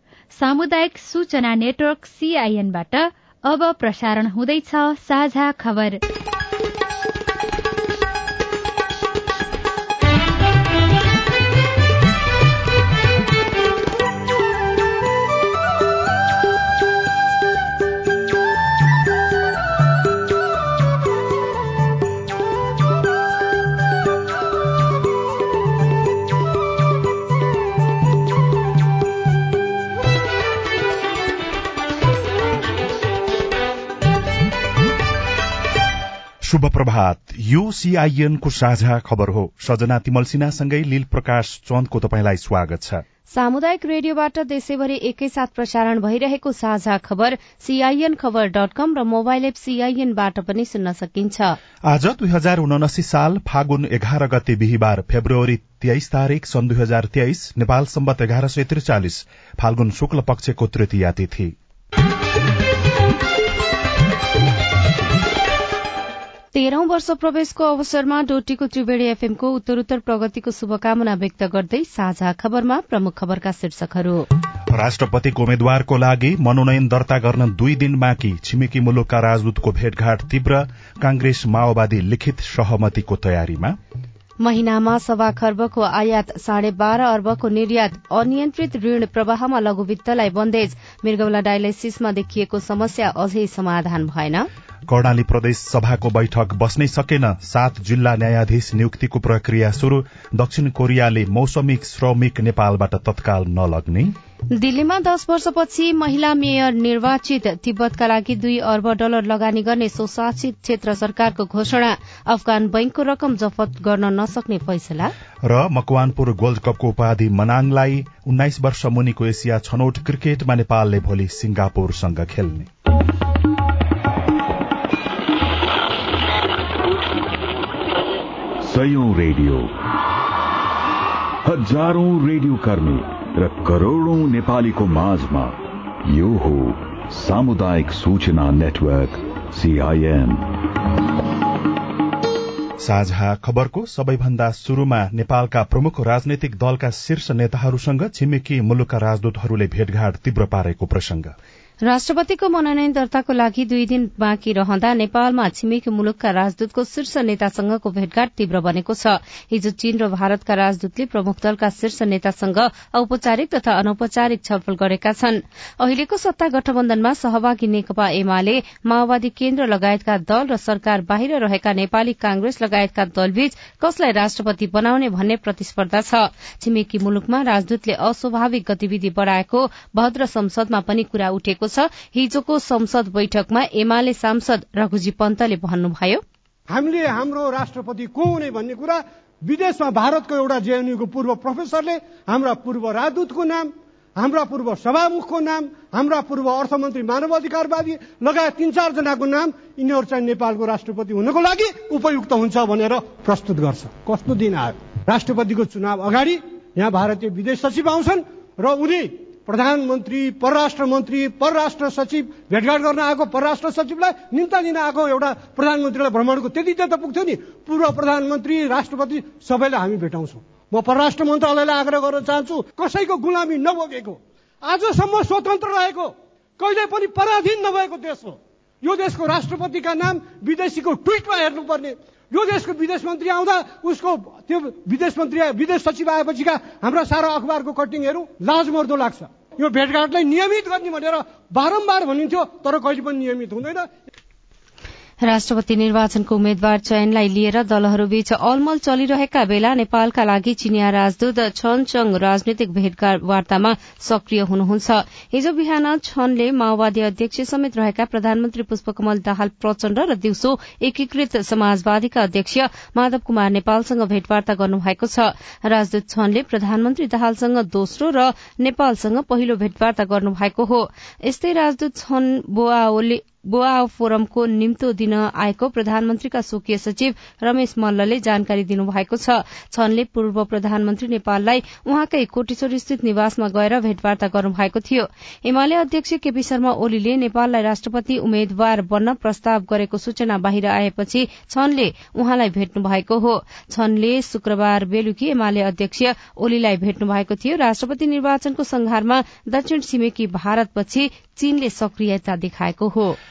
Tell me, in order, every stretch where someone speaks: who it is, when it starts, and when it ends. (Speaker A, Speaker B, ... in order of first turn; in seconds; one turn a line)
Speaker A: 0.3-6.0
Speaker B: 36.4-43.0
Speaker C: 43.3-51.6
Speaker B: 51.9-61.5
Speaker C: 66.5-74.2
Speaker B: 74.7-83.8
Speaker C: 84.4-94.5
Speaker B: 94.9-104.1
Speaker C: 104.5-115.1
Speaker B: 115.5-122.7
Speaker D: 128.6-129.7
Speaker D: 131.4-140.5
Speaker B: 142.8-151.3
Speaker C: 151.8-186.2
Speaker E: 186.7-243.9
Speaker C: 245.2-303.2